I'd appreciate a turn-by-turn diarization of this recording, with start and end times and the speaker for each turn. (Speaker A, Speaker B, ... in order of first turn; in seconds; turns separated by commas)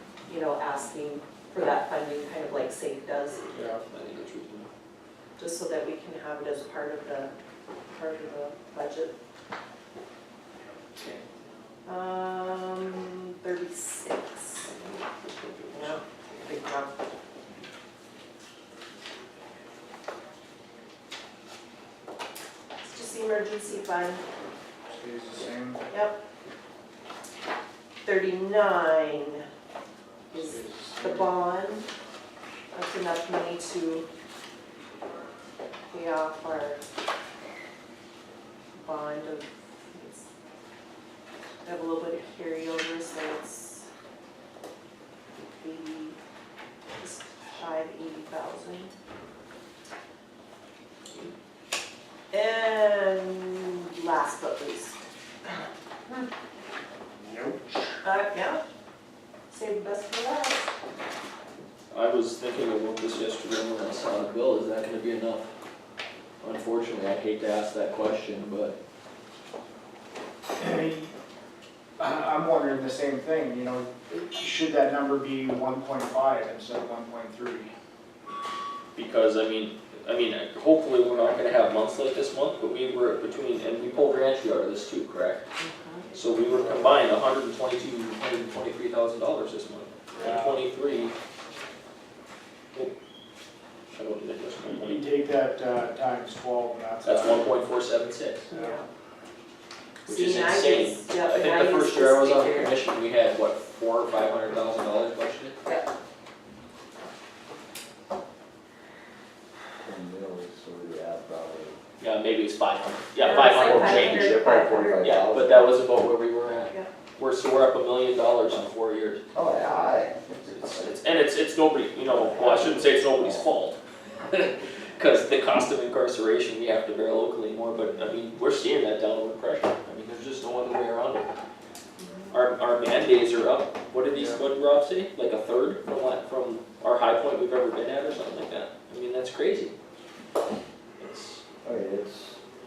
Speaker A: 0.3-3.5, Speaker B: 3.9-4.7, Speaker A: 5.4-7.3, Speaker A: 7.9-9.1, Speaker B: 11.0-11.2, Speaker A: 11.9-14.7, Speaker B: 14.6-16.0, Speaker A: 15.7-16.9, Speaker A: 22.8-24.2, Speaker C: 24.9-25.9, Speaker A: 25.9-26.2, Speaker A: 28.0-29.4, Speaker A: 30.3-31.9, Speaker C: 30.4-31.3, Speaker A: 32.7-34.1, Speaker A: 35.9-36.8, Speaker A: 38.8-40.3, Speaker A: 41.6-43.9, Speaker A: 45.4-46.2, Speaker A: 47.0-48.9, Speaker A: 52.3-55.0, Speaker C: 57.2-57.9, Speaker A: 58.0-58.6, Speaker A: 59.5-60.7, Speaker B: 61.9-65.5, Speaker B: 66.4-68.8, Speaker C: 70.6-71.1, Speaker C: 72.0-77.7, Speaker B: 79.0-85.4, Speaker A: 85.6-86.1, Speaker B: 86.1-91.1, Speaker C: 90.1-90.6, Speaker B: 93.9-95.0, Speaker C: 94.7-97.6, Speaker B: 97.0-98.5, Speaker A: 98.5-98.9, Speaker A: 100.1-102.8, Speaker B: 100.1-105.6, Speaker D: 109.8-111.8, Speaker B: 112.0-114.5, Speaker A: 113.2-115.6, Speaker D: 113.5-115.7, Speaker B: 115.0-119.2, Speaker D: 119.3-120.9, Speaker B: 120.5-123.8, Speaker D: 122.1-123.5, Speaker B: 124.3-131.3, Speaker A: 132.0-132.3, Speaker B: 132.3-139.7, Speaker C: 134.1-134.4, Speaker B: 141.0-141.4, Speaker D: 141.6-142.4